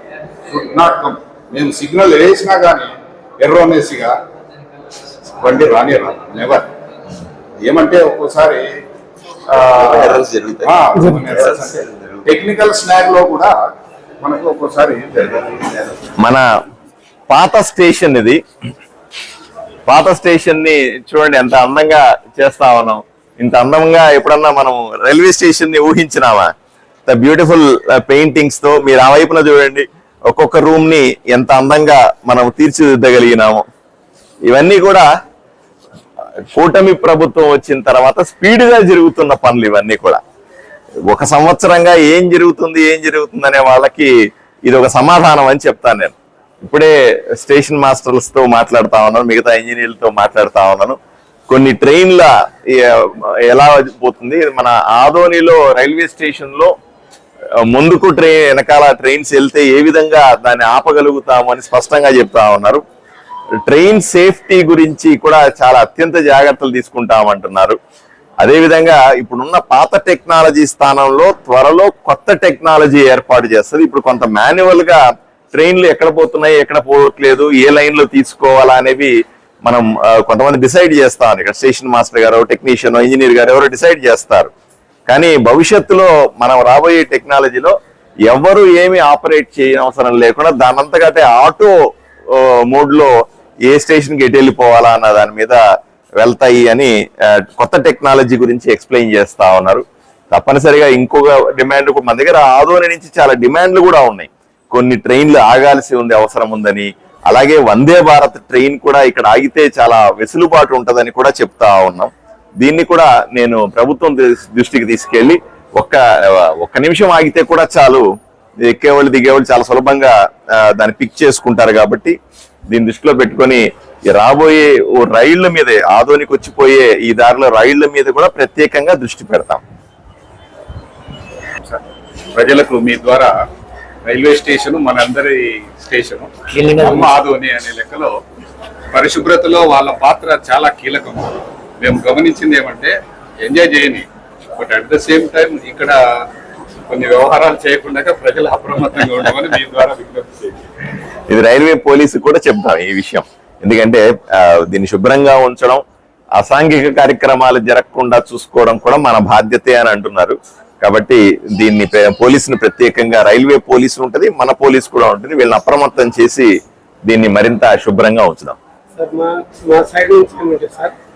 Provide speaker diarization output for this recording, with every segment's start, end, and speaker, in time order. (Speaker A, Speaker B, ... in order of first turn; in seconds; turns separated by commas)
Speaker A: 0.5-4.2, Speaker A: 5.4-6.7, Speaker A: 7.6-8.7, Speaker A: 9.5-13.6, Speaker B: 9.7-12.2, Speaker C: 10.9-11.3, Speaker A: 14.2-15.9, Speaker B: 16.2-16.4, Speaker B: 17.3-18.4, Speaker B: 19.9-26.5, Speaker B: 27.1-33.6, Speaker B: 34.5-35.1, Speaker B: 36.5-40.2, Speaker B: 41.1-44.1, Speaker B: 44.7-51.0, Speaker B: 51.5-56.7, Speaker B: 57.7-62.8, Speaker B: 63.7-67.8, Speaker B: 68.4-75.0, Speaker B: 75.5-79.1, Speaker B: 79.7-84.5, Speaker B: 85.1-87.8, Speaker B: 88.3-91.7, Speaker B: 92.3-93.1, Speaker B: 93.7-95.6, Speaker B: 96.2-118.0, Speaker B: 118.7-122.2, Speaker B: 122.7-129.6, Speaker A: 132.3-133.3, Speaker A: 134.1-138.1, Speaker A: 138.9-144.1, Speaker A: 144.6-146.0, Speaker A: 146.9-150.6, Speaker B: 151.3-155.8, Speaker B: 156.4-166.5, Speaker B: 167.1-168.6, Speaker C: 168.9-170.9